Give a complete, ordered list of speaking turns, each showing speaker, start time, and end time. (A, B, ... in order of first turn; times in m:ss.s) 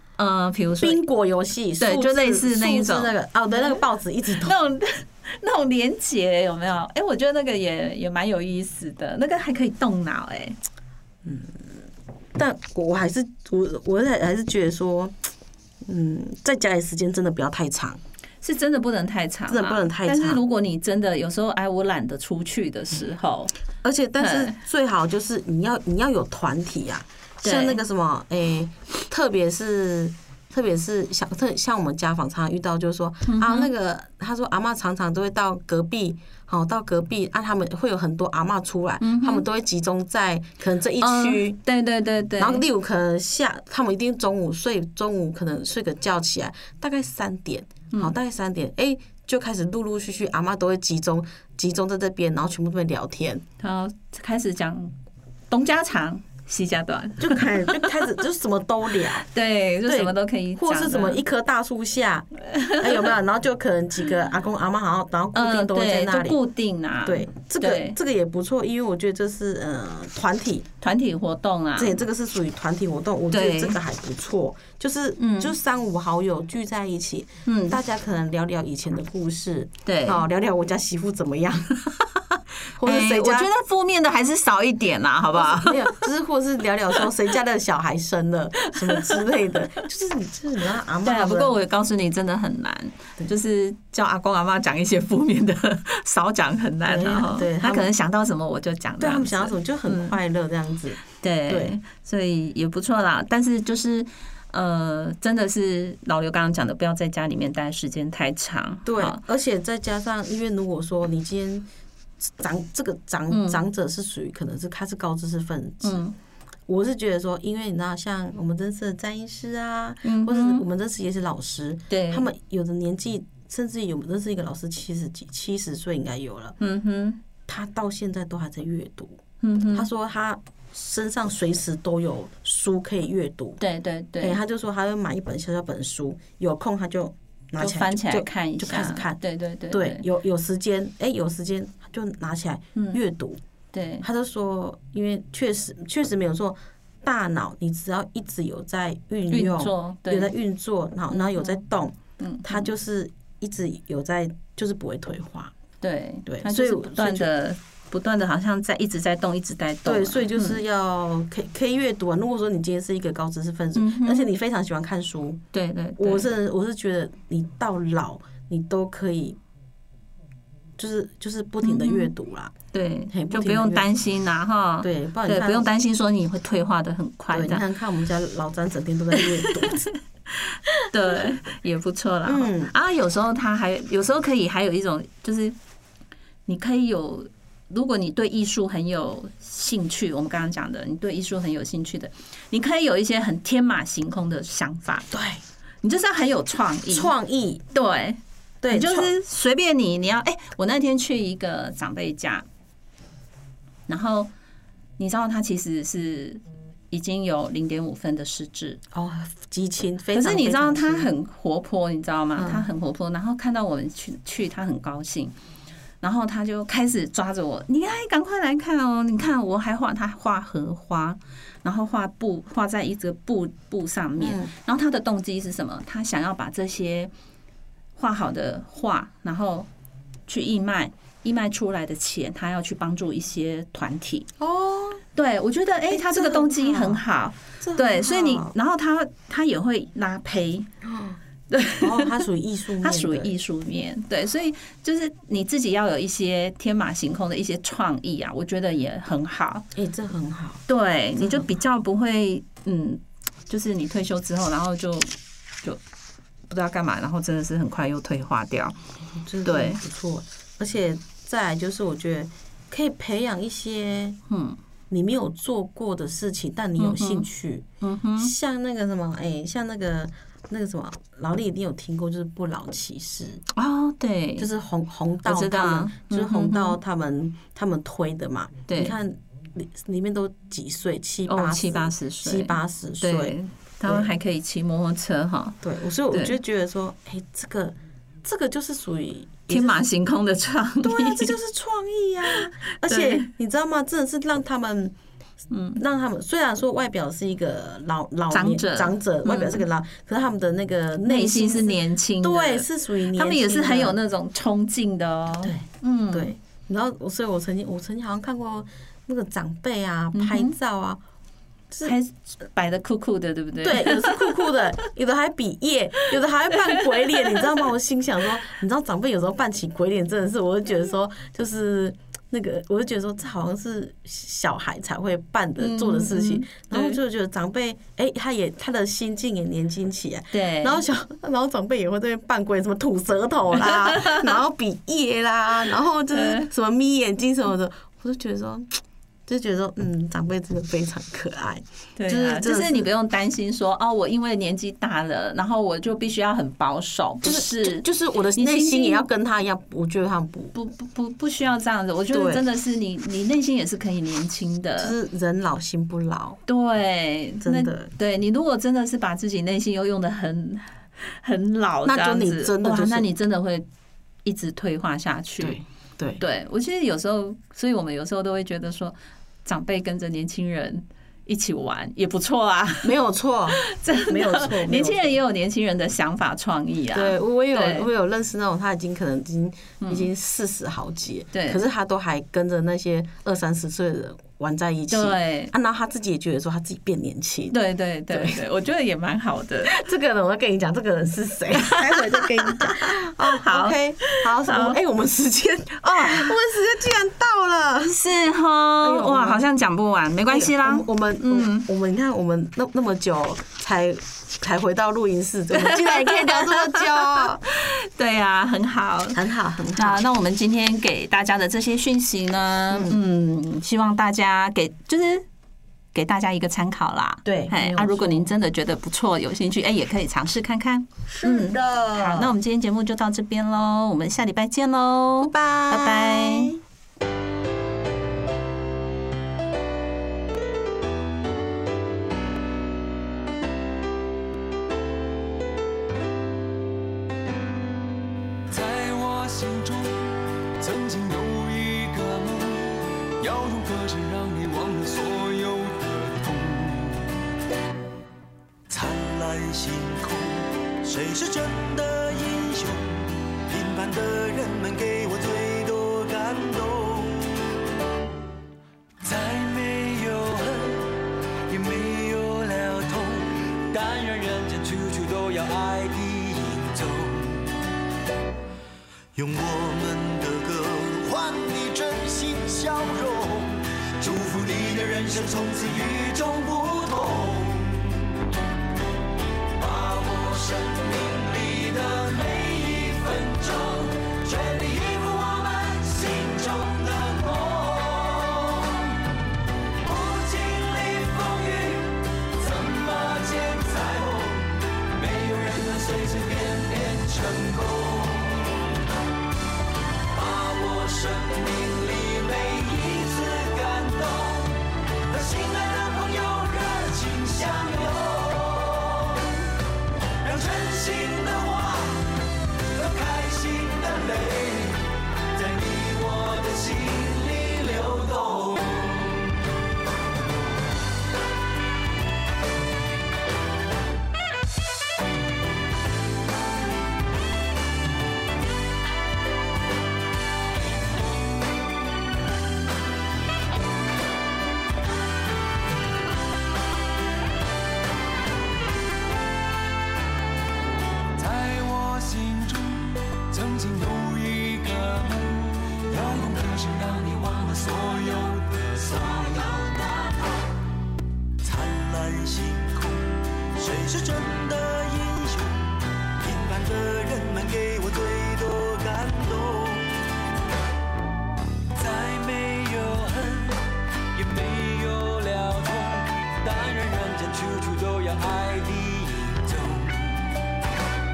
0:00.2-0:01.0 A
0:00.8-0:04.6 B
0:01.8-0:10.6 A
0:11.2-0:11.6 B
0:12.4-0:15.2 B
0:15.8-0:18.0 B
0:18.4-0:23.5 A
0:19.5-0:20.4 B
0:23.8-0:41.6 B
0:24.2-0:24.6 A
0:27.4-0:27.8 A
0:33.3-0:33.7 A
0:39.0-0:39.4 A
0:41.0-0:42.6 A
0:42.4-0:53.4 B
0:53.6-0:55.0 A
0:55.5-0:58.1 A
0:57.2-0:59.3 B
0:59.3-1:01.2 A
0:59.8-1:06.4 B
1:02.5-1:03.1 A
1:05.3-1:08.0 A
1:07.0-1:10.7 B
1:10.8-1:12.0 A
1:11.8-1:21.8 B
1:13.3-1:13.8 A
1:15.2-1:15.5 A
1:17.5-1:17.8 A
1:19.9-1:20.2 A
1:22.8-1:23.5 B
1:22.8-1:26.1 A
1:25.3-1:31.6 B
1:28.9-1:29.2 A
1:31.0-1:40.2 A
1:36.8-1:37.9 B
1:39.0-1:41.8 B
1:41.2-1:49.2 A
1:48.8-1:51.7 B
1:52.2-1:56.0 B
1:53.3-1:53.6 A
1:55.8-1:56.2 A
1:56.7-2:06.6 B
2:00.0-2:00.6 A
2:01.9-2:02.3 A
2:06.6-2:07.2 A
2:07.5-2:09.2 B
2:09.4-2:09.9 A
2:09.7-2:13.6 B
2:13.6-2:14.4 A
2:14.2-2:23.4 B
2:17.6-2:20.1 A
2:22.8-2:23.0 A
2:23.7-2:24.0 A
2:24.0-2:35.5 B
2:29.3-2:30.3 A
2:31.1-2:31.6 A
2:32.2-2:32.7 A
2:35.8-2:40.6 A
2:36.3-2:37.3 B
2:39.8-2:45.4 B
2:43.8-2:44.3 A
2:45.5-2:46.3 A
2:46.0-2:49.4 B
2:50.8-2:52.6 B
2:51.6-2:52.1 A
2:52.7-2:57.6 A
2:53.1-2:53.9 B
2:54.8-2:55.7 B
2:57.3-2:59.9 B
3:00.3-3:05.6 A
3:02.2-3:02.7 B
3:06.5-3:15.1 A
3:15.1-3:15.4 B
3:15.8-3:17.1 A
3:16.9-3:17.6 B
3:17.7-3:18.2 A
3:18.6-3:19.1 B
3:18.7-3:22.5 A
3:23.9-3:24.3 A
3:25.0-3:28.8 A
3:28.9-3:31.1 B
3:30.1-3:35.4 A
3:32.4-3:32.7 B
3:36.0-3:47.1 A
3:44.2-3:44.5 B
3:48.0-3:49.7 A
3:50.3-3:54.3 A
3:54.4-3:55.0 B
3:55.2-4:00.7 A
3:55.9-3:57.0 B
3:57.6-3:58.6 B
4:00.8-4:01.2 B
4:01.5-4:02.2 A
4:01.8-4:03.3 B
4:02.8-4:09.7 A
4:09.8-4:10.6 B
4:10.7-4:15.8 A
4:11.2-4:11.6 B
4:16.5-4:18.8 A
4:19.1-4:24.2 B
4:19.4-4:19.8 A
4:24.3-4:24.6 A
4:24.9-4:27.7 B
4:26.8-4:27.3 A
4:27.8-4:28.3 A
4:28.2-4:33.4 B
4:33.6-4:34.5 A
4:34.4-4:44.1 B
4:35.2-4:36.8 A
4:38.7-4:39.0 A
4:41.3-4:45.6 A
4:45.6-4:49.8 B
4:46.1-4:46.4 A
4:49.5-4:51.4 A
4:50.8-4:55.0 B
4:52.3-4:53.3 A
4:55.5-4:55.8 A
4:55.8-5:04.0 B
4:58.3-4:59.6 A
5:01.0-5:06.3 A
5:05.4-5:11.0 B
5:10.1-5:10.6 A
5:11.7-5:12.0 B
5:11.8-5:14.5 A
5:13.6-5:42.9 B
5:16.8-5:17.4 A
5:25.6-5:27.0 A
5:30.3-5:30.8 A
5:33.9-5:34.2 A
5:36.1-5:36.5 A
5:42.0-5:49.1 A
5:47.2-5:50.5 B
5:50.5-5:55.0 A
5:52.1-5:52.4 B
5:54.8-5:56.4 B
5:56.5-6:03.7 A
5:57.4-5:57.9 B
6:01.8-6:03.1 B
6:04.2-6:05.6 A
6:05.4-6:06.2 B
6:06.2-6:12.9 A
6:12.8-6:15.2 B
6:13.6-6:17.9 A
6:16.9-6:27.6 B
6:19.8-6:20.1 A
6:21.3-6:21.6 A
6:24.9-6:25.5 A
6:27.5-6:29.8 A
6:28.1-6:28.4 B
6:29.6-6:38.0 B
6:31.6-6:34.8 A
6:35.8-6:36.3 A
6:37.8-6:41.7 A
6:38.8-6:39.5 B
6:40.3-6:47.4 B
6:45.5-6:49.2 A
6:49.1-6:50.0 B
6:49.7-6:55.3 A
6:52.7-6:53.0 B
6:55.9-7:06.6 A
6:57.2-6:58.3 B
7:01.1-7:02.3 B
7:05.2-7:06.6 B
7:18.5-7:20.1 C
7:20.6-7:27.1 C
7:28.7-7:37.2 C
7:39.0-7:40.9 C
7:41.5-7:47.5 C
7:49.2-7:58.2 C
7:59.6-8:08.9 C
8:09.8-8:18.6 C
8:20.1-8:29.4 C
8:30.2-8:32.2 C
8:32.7-8:39.1 C
9:01.2-9:10.4 C
9:11.4-9:19.9 C
9:21.8-9:30.3 C